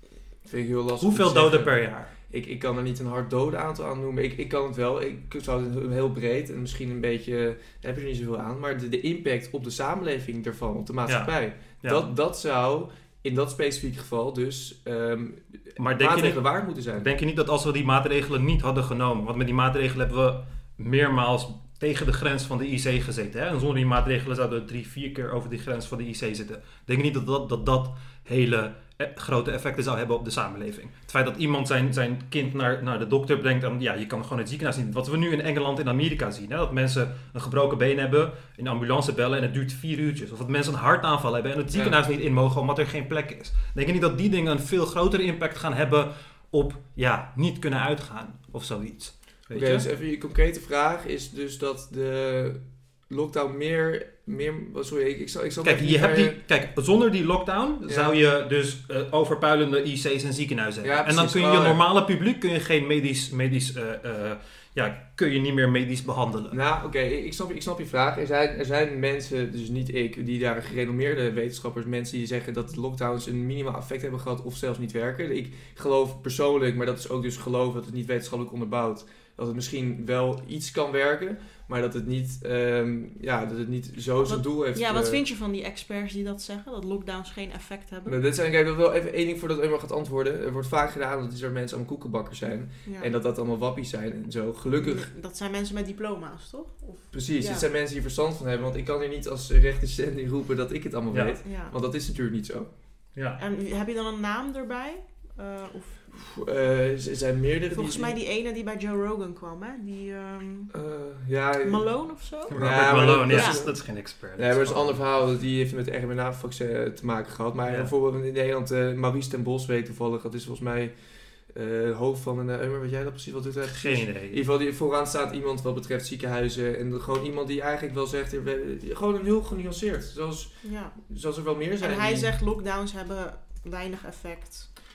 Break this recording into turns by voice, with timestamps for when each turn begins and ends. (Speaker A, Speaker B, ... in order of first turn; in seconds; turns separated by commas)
Speaker A: 0.5-17.1, Speaker B: 1.0-2.1, Speaker B: 11.1-11.3, Speaker B: 15.8-16.4, Speaker B: 16.9-49.9, Speaker A: 49.5-56.4, Speaker B: 55.6-66.6, Speaker A: 57.9-58.1, Speaker A: 60.8-61.8, Speaker A: 66.5-85.2, Speaker C: 84.2-88.2, Speaker A: 88.0-95.1, Speaker C: 94.8-97.7, Speaker A: 97.1-102.7, Speaker C: 101.4-101.7, Speaker B: 103.1-103.4, Speaker C: 103.4-106.3, Speaker A: 106.1-108.2, Speaker C: 107.7-110.7, Speaker A: 110.7-111.9, Speaker C: 111.6-113.6, Speaker B: 112.5-115.0, Speaker A: 112.5-132.3, Speaker B: 123.7-124.4, Speaker C: 130.6-130.9, Speaker C: 131.8-134.7